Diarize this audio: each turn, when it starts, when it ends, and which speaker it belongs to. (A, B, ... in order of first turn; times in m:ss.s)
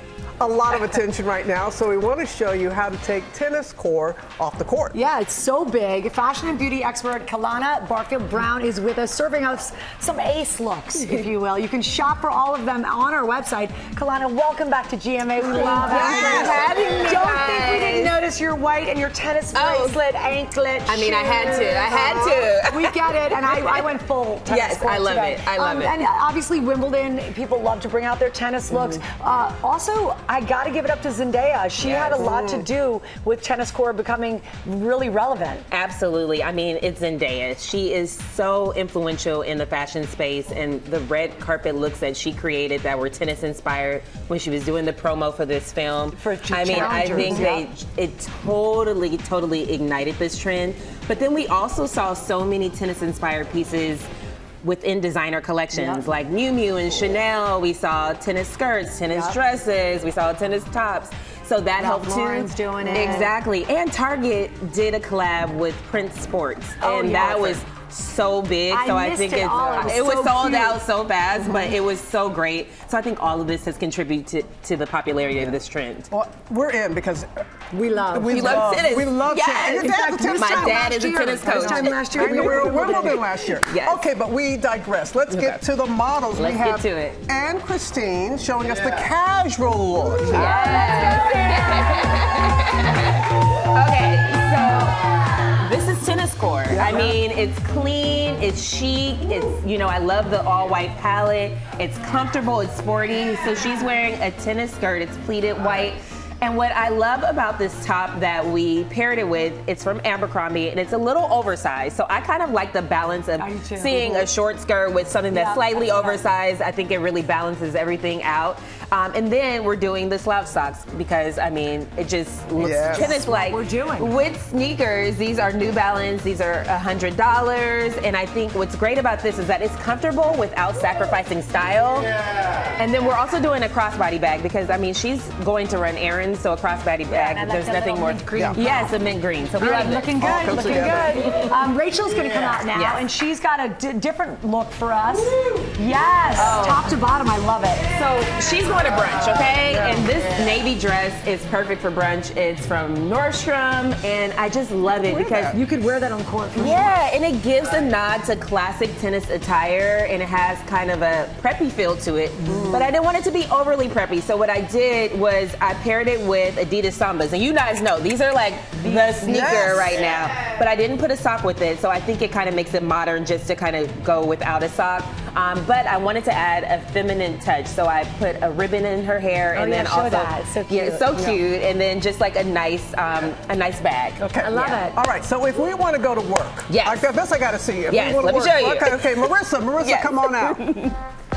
0:00.4-0:05.0 A
0:04.9-0:35.6 B
0:15.4-0:18.1 C
0:15.8-0:16.7 A
0:19.5-0:20.0 C
0:20.9-0:23.8 C
0:24.4-0:26.0 C
0:28.7-0:29.0 C
0:31.8-0:32.3 C
0:32.0-0:32.6 A
0:35.7-0:54.1 C
0:46.1-0:47.7 B
0:47.2-0:47.4 A
0:54.6-1:16.1 C
0:55.7-0:56.1 B
0:59.1-0:59.4 B
1:01.8-1:03.3 B
1:06.8-1:07.6 B
1:08.7-1:10.8 B
1:16.1-1:17.3 A
1:17.7-1:18.8 B
1:17.8-1:20.9 A
1:18.3-1:22.8 C
1:19.7-1:23.2 B
1:21.5-1:30.6 A
1:23.7-1:24.0 C
1:25.3-1:25.6 C
1:26.3-1:27.2 C
1:30.2-1:35.0 C
1:30.2-1:32.0 B
1:35.6-2:12.1 C
1:36.7-1:37.2 A
1:53.4-1:54.3 B
1:55.3-1:56.3 B
2:02.6-2:03.2 A
2:02.9-2:04.2 B
2:12.8-2:21.5 C
2:17.1-2:19.0 B
2:19.6-2:27.9 B
2:20.2-2:21.1 A
2:22.7-2:23.1 C
2:26.4-2:26.9 C
2:27.9-2:35.6 C
2:35.0-2:35.6 A
2:35.5-2:37.0 B
2:36.6-3:04.8 C
2:42.4-2:42.9 A
2:49.2-2:50.1 A
2:59.5-3:01.3 B
3:04.2-3:05.0 B
3:04.2-3:10.6 A
3:06.7-3:07.1 C
3:07.9-3:11.0 C